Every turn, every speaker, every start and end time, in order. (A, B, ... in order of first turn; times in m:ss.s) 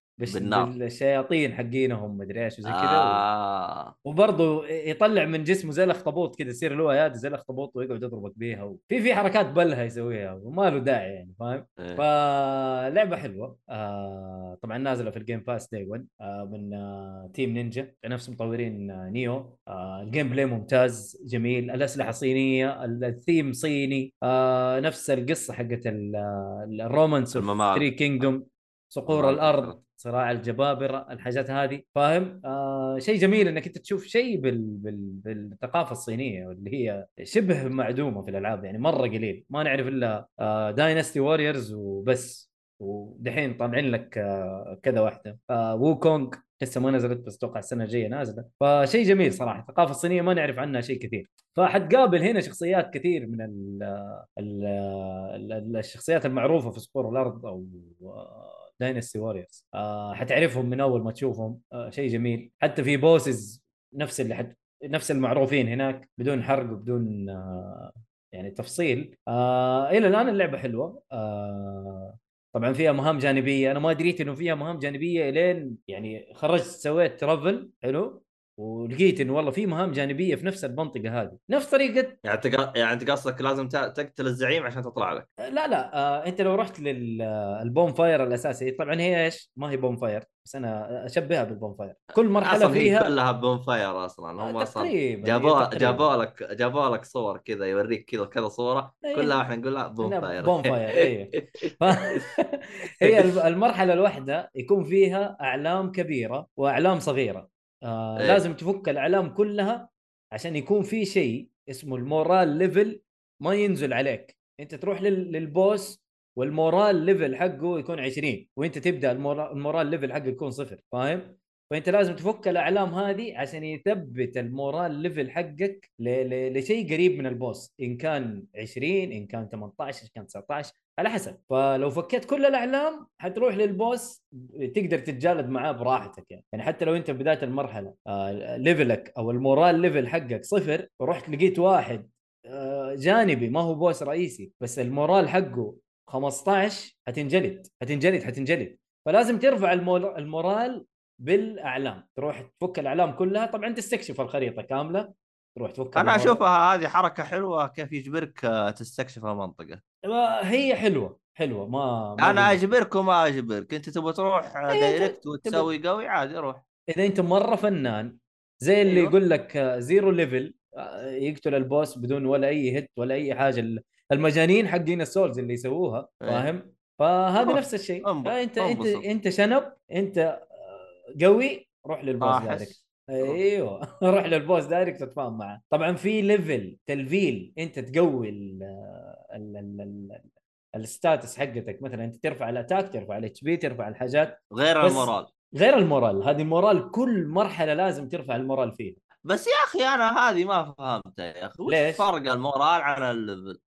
0:00.2-0:03.2 A
0:00.3-0:00.7 B
0:02.7-0:04.0 B
0:04.0-1:22.2 A
0:11.8-0:12.0 B
0:27.3-0:28.3 B
0:29.1-0:29.8 B
1:22.2-1:25.3 B
1:25.5-1:33.1 A
1:32.4-1:42.3 B
1:34.4-1:36.1 A
1:39.0-1:39.4 A
1:40.0-2:36.4 A
1:43.0-1:43.4 B
1:48.2-1:48.4 B
2:36.0-2:39.8 B
2:40.0-2:42.6 A
2:42.2-2:46.6 B
2:44.7-2:45.7 A
2:46.9-3:10.2 A
2:48.8-2:49.2 B
2:56.2-2:56.5 B
2:57.4-2:59.0 B
3:02.2-3:03.4 B
3:10.8-3:19.0 A
3:14.5-3:15.3 B
3:19.3-3:23.6 B
3:21.7-3:22.1 A